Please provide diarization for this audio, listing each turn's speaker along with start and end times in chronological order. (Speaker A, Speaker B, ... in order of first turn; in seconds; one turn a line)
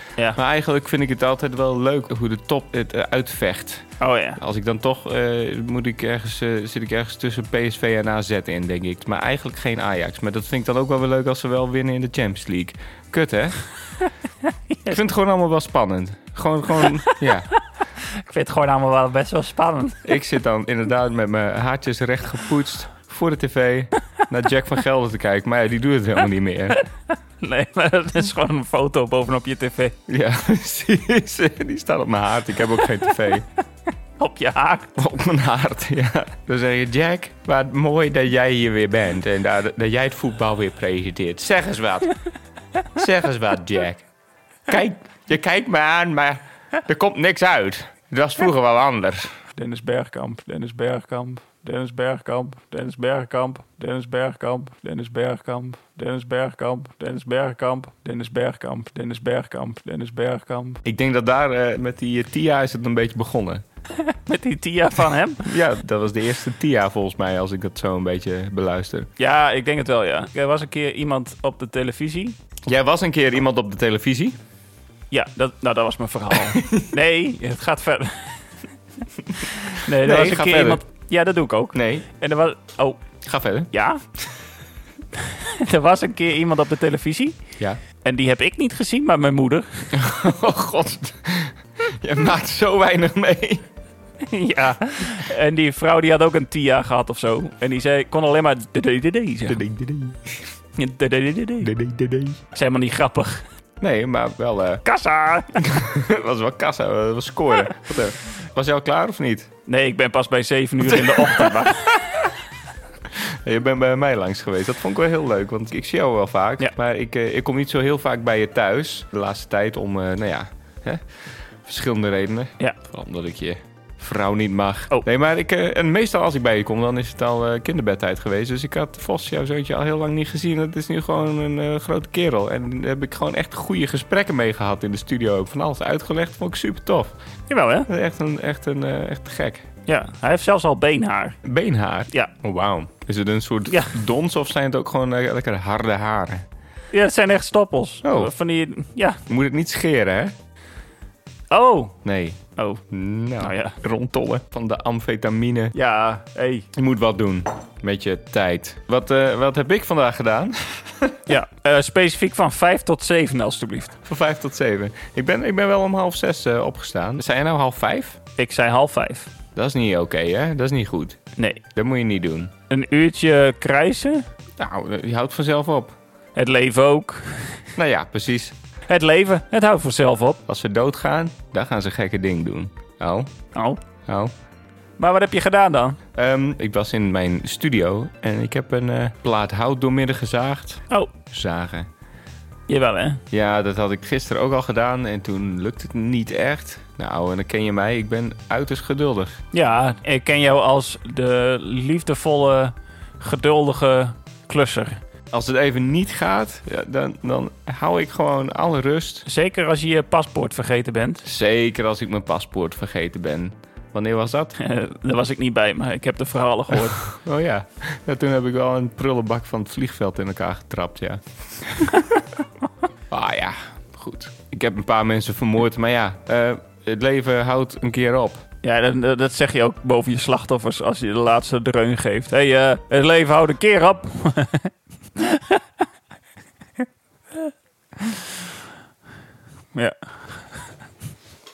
Speaker A: 0.3-3.9
Speaker B: 4.0-4.4
Speaker A: 4.4-13.6
Speaker B: 14.7-15.0
Speaker A: 14.9-17.5
Speaker B: 18.0-20.0
Speaker A: 20.0-26.8
Speaker B: 27.4-29.9
Speaker A: 30.1-33.5
Speaker B: 34.2-34.9
Speaker A: 35.0-42.1
Speaker A: 42.9-44.0
Speaker A: 44.7-49.3
Speaker B: 49.5-60.8
Speaker A: 60.8-63.6
Speaker B: 64.0-65.4
Speaker A: 65.4-69.1
Speaker B: 69.2-72.3
Speaker A: 72.7-74.4
Speaker B: 75.1-78.4
Speaker A: 76.5-76.9
Speaker B: 79.4-83.0
Speaker A: 80.0-80.8
Speaker A: 81.7-82.0
Speaker A: 83.2-83.7
Speaker B: 83.7-84.0
Speaker B: 85.2-87.4
Speaker B: 88.0-89.9
Speaker A: 89.9-93.7
Speaker B: 94.2-99.6
Speaker A: 99.5-100.4
Speaker B: 100.7-101.7
Speaker A: 101.6-102.4
Speaker B: 102.5-103.4
Speaker A: 103.8-104.8
Speaker B: 104.8-105.6
Speaker A: 105.5-109.5
Speaker B: 109.7-112.2
Speaker A: 110.8-111.7
Speaker A: 113.2-121.0
Speaker A: 121.6-137.1
Speaker B: 137.5-137.9
Speaker A: 137.9-139.6
Speaker B: 139.8-141.4
Speaker A: 141.4-146.4
Speaker B: 143.7-144.0
Speaker B: 146.9-149.2
Speaker A: 148.0-148.3
Speaker A: 149.3-150.3
Speaker B: 151.5-151.9
Speaker A: 152.0-152.4
Speaker B: 152.5-152.8
Speaker A: 152.9-155.7
Speaker B: 153.4-153.8
Speaker B: 155.7-156.7
Speaker A: 156.7-161.2
Speaker B: 161.3-163.9
Speaker A: 164.0-168.2
Speaker B: 168.4-169.3
Speaker A: 169.6-171.2
Speaker B: 171.3-171.6
Speaker A: 171.7-172.5
Speaker B: 172.7-174.2
Speaker A: 174.6-175.9
Speaker B: 176.3-177.6
Speaker A: 177.8-178.6
Speaker B: 178.9-180.4
Speaker A: 180.5-183.3
Speaker B: 183.5-183.8
Speaker B: 185.0-186.0
Speaker A: 186.1-191.9
Speaker B: 192.7-193.2
Speaker A: 193.3-199.4
Speaker B: 199.5-205.0
Speaker A: 205.3-209.2
Speaker B: 209.2-211.2
Speaker A: 211.2-214.6
Speaker B: 214.6-217.1
Speaker A: 217.1-222.1
Speaker A: 223.1-228.4
Speaker B: 228.6-235.6
Speaker B: 239.7-240.0